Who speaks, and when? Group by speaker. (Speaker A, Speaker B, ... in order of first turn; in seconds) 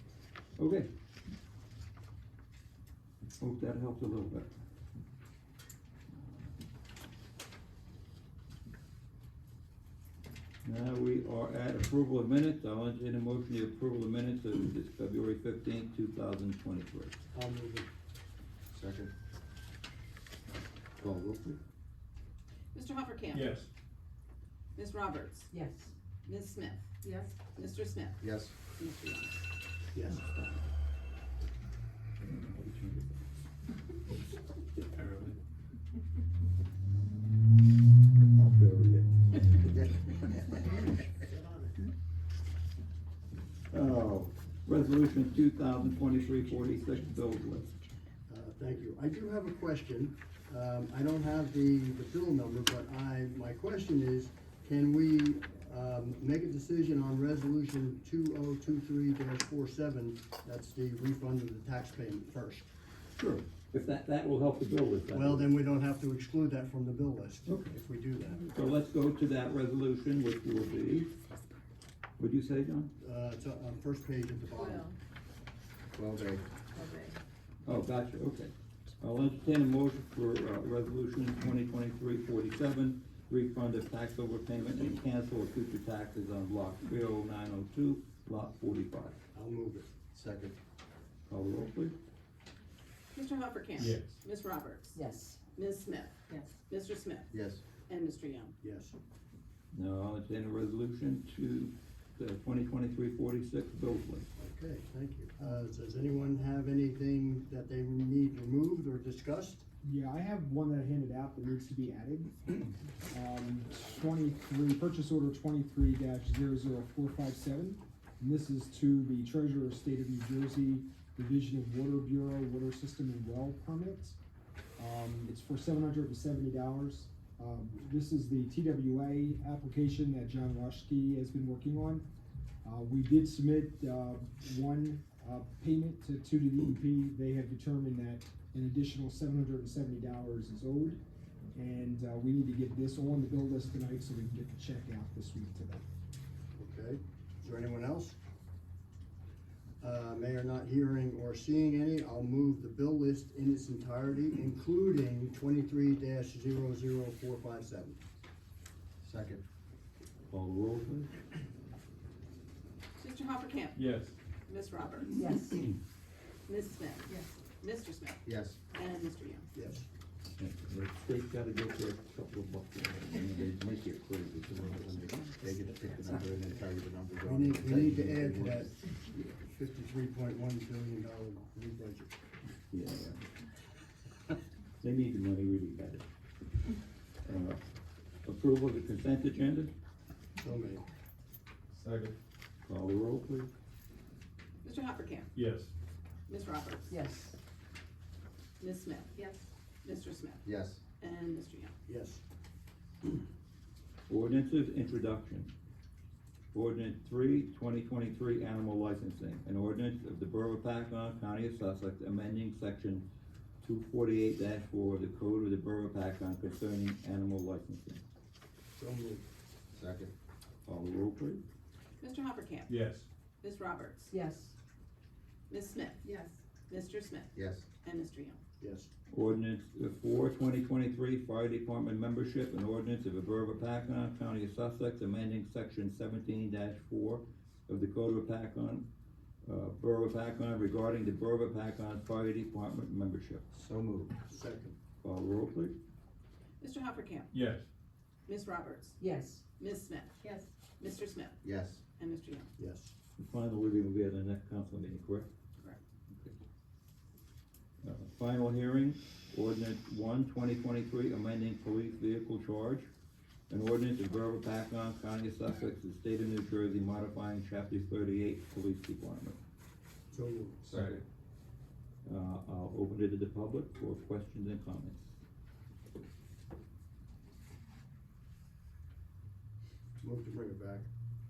Speaker A: 0.6-0.9, 3.4-4.5, 10.6-17.1, 30.1-30.5, 32.2-33.1, 38.4-39.0, 43.7-47.7, 63.2-65.5, 67.5-67.7, 68.5-71.1, 72.2-72.9, 77.6-89.2, 91.3-91.9, 99.7-104.3, 160.3-161.1, 170.4-174.7, 182.7-183.2, 184.8-186.1, 187.2-187.6, 188.2-189.7, 192.6-193.5, 204.1-205.5, 206.5-213.1, 213.6-218.0, 220.7-221.4, 229.1-238.9, 239.4-243.4, 245.0-245.7, 253.2-255.3, 256.1-256.4, 257.8-262.9, 263.5-269.4, 272.0-275.1
Speaker B: 17.3-17.9, 29.9-30.2, 48.3-62.7, 65.1-68.5, 73.0-74.9, 89.3-89.9, 98.6-99.0, 104.4-109.6, 146.6-148.2, 149.8-158.0, 169.5-169.8, 177.2-178.8, 179.4-182.1, 190.4-190.8, 201.9-202.2, 218.7-219.2, 228.6-228.9, 244.3-244.8, 252.6-252.9, 270.1-270.6, 280.0-280.9
Speaker C: 18.7-19.1, 21.0-21.6, 28.2-28.5, 39.7-40.1, 75.9-76.5, 90.1-90.6, 97.3-97.6, 159.0-159.4, 168.2-168.6, 174.4-178.7, 200.4-200.8, 219.7-220.1, 227.3-227.7, 243.5-244.1, 251.4-251.8, 270.6-271.0
Speaker D: 22.7-23.6, 24.8-25.5, 26.2-26.9, 27.5-28.2, 28.8-29.4, 93.1-95.0, 95.5-97.3, 97.9-98.5, 163.0-163.8, 164.5-165.6, 166.5-168.2, 168.7-169.5, 194.6-195.3, 196.3-197.0, 198.6-199.2, 199.8-200.4, 201.0-201.7, 222.0-222.8, 223.4-224.1, 225.5-226.0, 226.7-228.4, 246.6-247.3, 248.3-249.0, 249.6-250.2, 250.8-251.4, 252.0-252.5
Speaker E: 23.3-23.7, 34.9-35.3, 93.8-94.2, 163.8-164.2, 191.7-192.1, 195.3-195.7, 222.7-223.1, 247.3-247.7, 270.7-271.0
Speaker F: 25.5-25.9, 27.0-27.3, 74.6-74.9, 76.7-77.2, 94.9-95.4, 165.2-165.7, 196.9-197.4, 199.1-199.4, 224.1-224.5, 226.0-226.4, 249.0-249.4
Speaker G: 109.8-124.2, 124.8-132.1, 132.6-141.0, 141.5-145.8